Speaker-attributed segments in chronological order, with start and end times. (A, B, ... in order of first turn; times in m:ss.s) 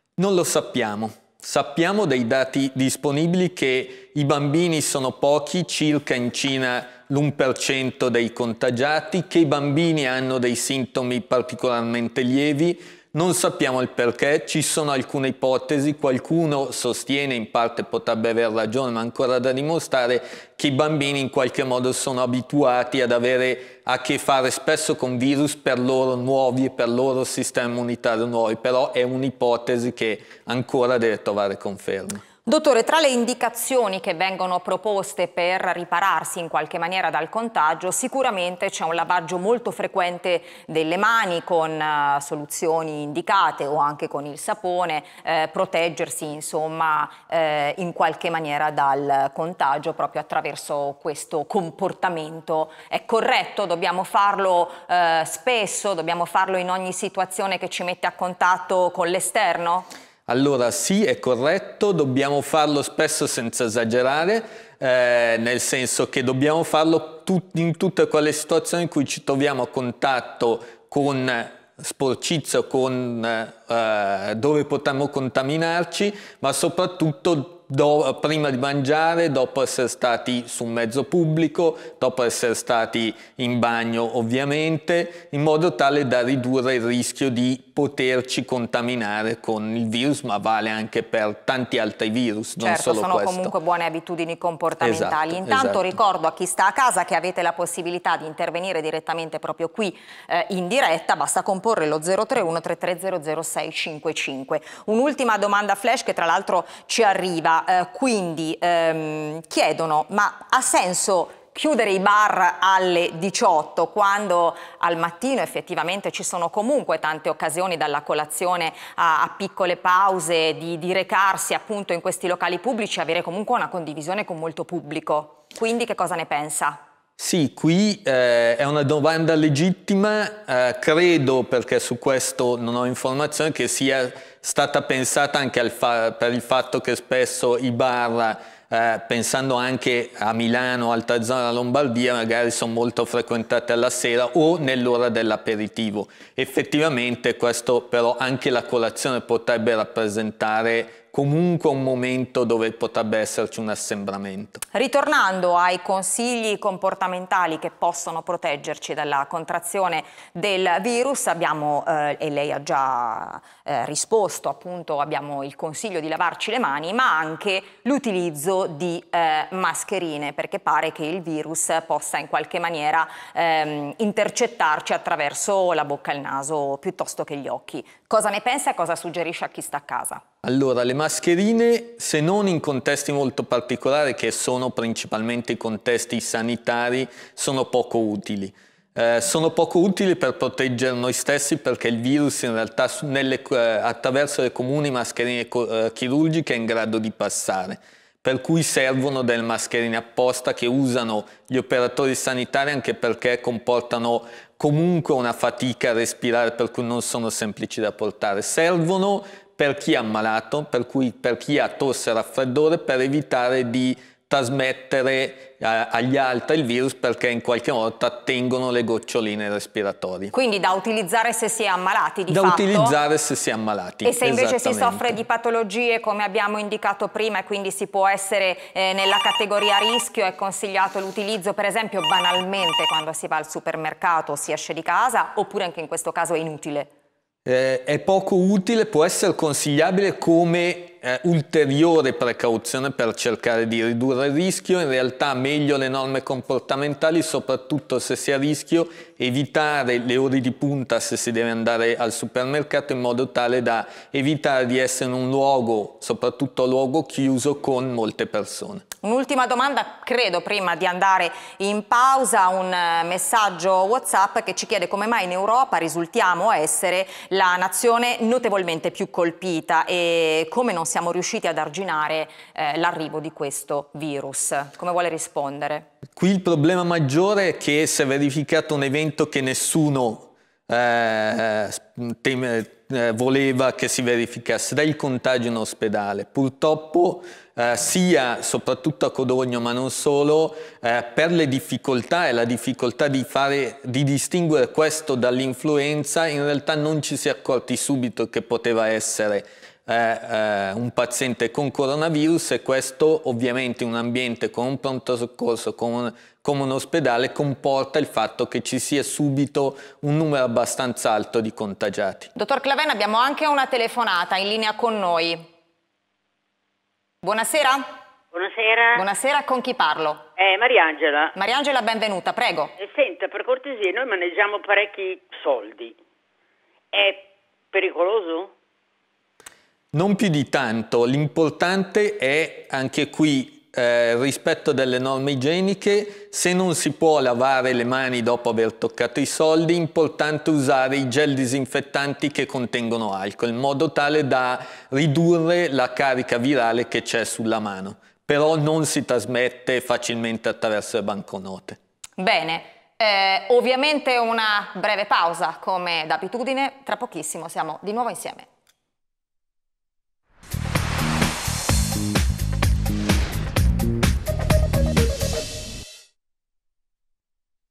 0:00.2-0:32.2 A
0:32.4-0:59.9 B
1:00.3-1:33.5 A
1:32.6-2:06.8 B
1:34.8-1:35.9 A
2:07.2-2:34.6 A
2:34.7-3:00.2 B
3:00.4-3:40.3 A
3:40.3-3:43.0 B
3:42.3-3:45.2 A
3:44.0-3:56.9 B
3:57.4-4:18.8 A
4:19.0-4:35.9 B
4:36.2-5:12.3 A
5:12.4-5:15.4 B
5:17.2-5:17.9 B
5:18.3-5:19.0 C
5:18.9-5:20.3 B
5:20.4-5:21.3 C
5:21.3-5:22.7 B
5:22.8-5:26.0 C
5:26.9-5:28.5 C
5:29.9-5:51.8 A
5:52.2-5:58.5 B